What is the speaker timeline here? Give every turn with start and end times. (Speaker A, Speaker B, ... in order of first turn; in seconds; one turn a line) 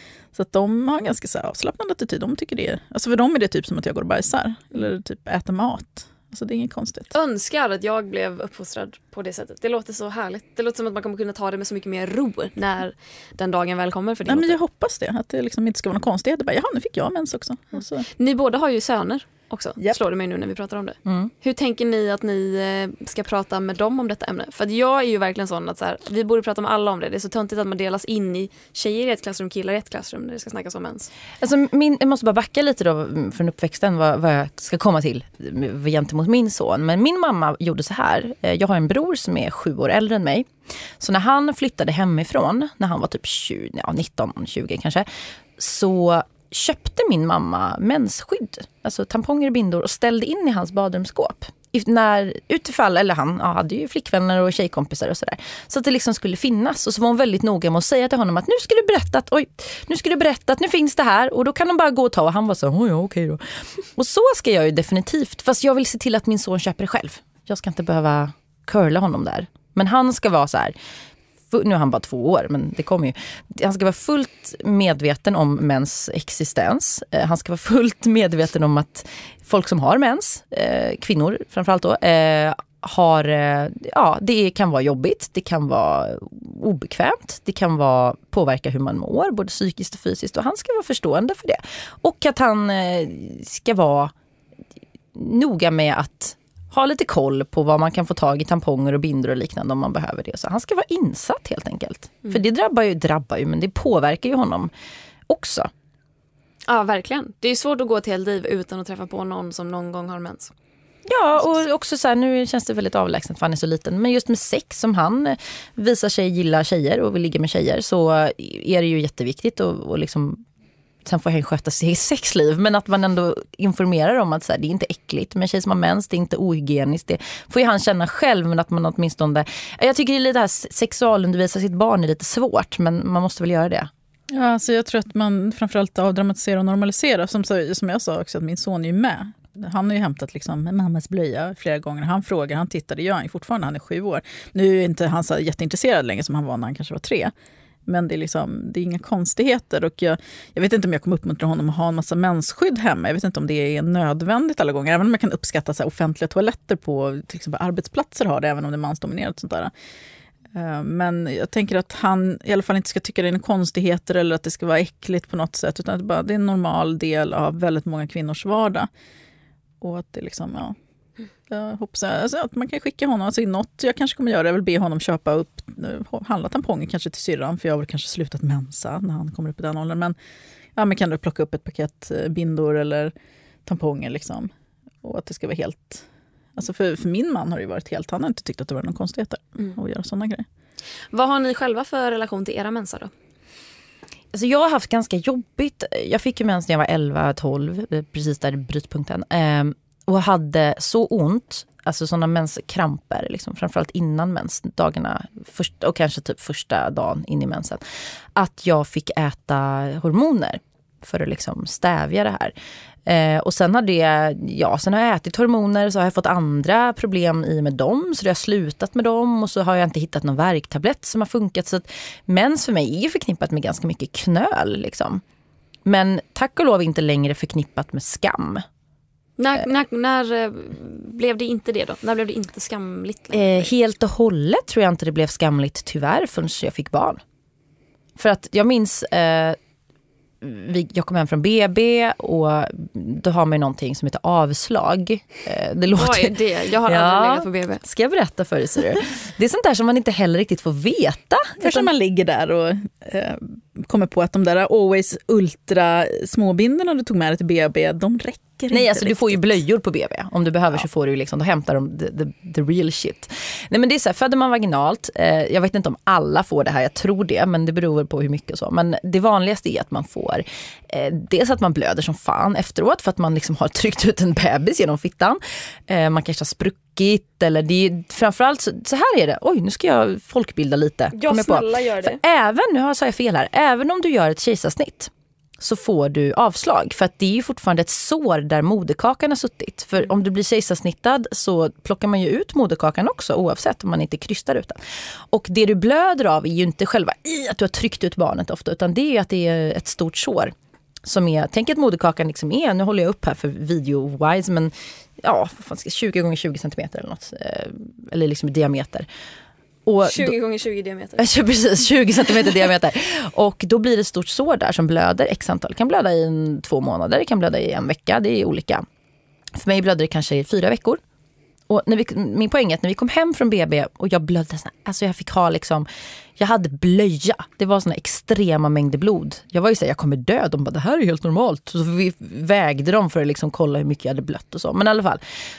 Speaker A: 0.3-7.1
Speaker B: 7.1-14.6
Speaker A: 14.3-18.1
Speaker B: 18.2-31.1
Speaker C: 21.1-21.3
Speaker C: 31.4-45.1
Speaker C: 45.6-70.7
Speaker C: 71.5-94.1
Speaker C: 95.1-104.7
Speaker C: 105.3-105.7
Speaker B: 106.7-110.5
Speaker C: 111.1-120.4
Speaker C: 121.0-133.9
Speaker A: 134.3-147.3
Speaker A: 147.9-159.7
Speaker A: 160.6-168.9
Speaker A: 169.8-170.8
Speaker A: 171.5-180.2
Speaker A: 180.8-183.1
Speaker A: 183.7-184.5
Speaker A: 185.0-186.0
Speaker A: 186.6-190.4
Speaker B: 191.1-193.1
Speaker C: 194.3-207.8
Speaker C: 208.3-212.5
Speaker C: 213.1-225.2
Speaker C: 225.8-228.7
Speaker B: 229.4-233.7
Speaker C: 233.3-237.2
Speaker C: 238.2-239.6
Speaker C: 240.4-251.9
Speaker B: 245.9-247.8
Speaker A: 251.6-259.6
Speaker C: 258.7-294.8
Speaker B: 281.1-282.2
Speaker C: 295.3-300.5
Speaker C: 301.1-309.1
Speaker C: 309.9-310.4
Speaker B: 310.0-311.3
Speaker C: 311.2-318.9
Speaker C: 319.6-321.0
Speaker C: 321.7-325.9
Speaker C: 326.4-335.2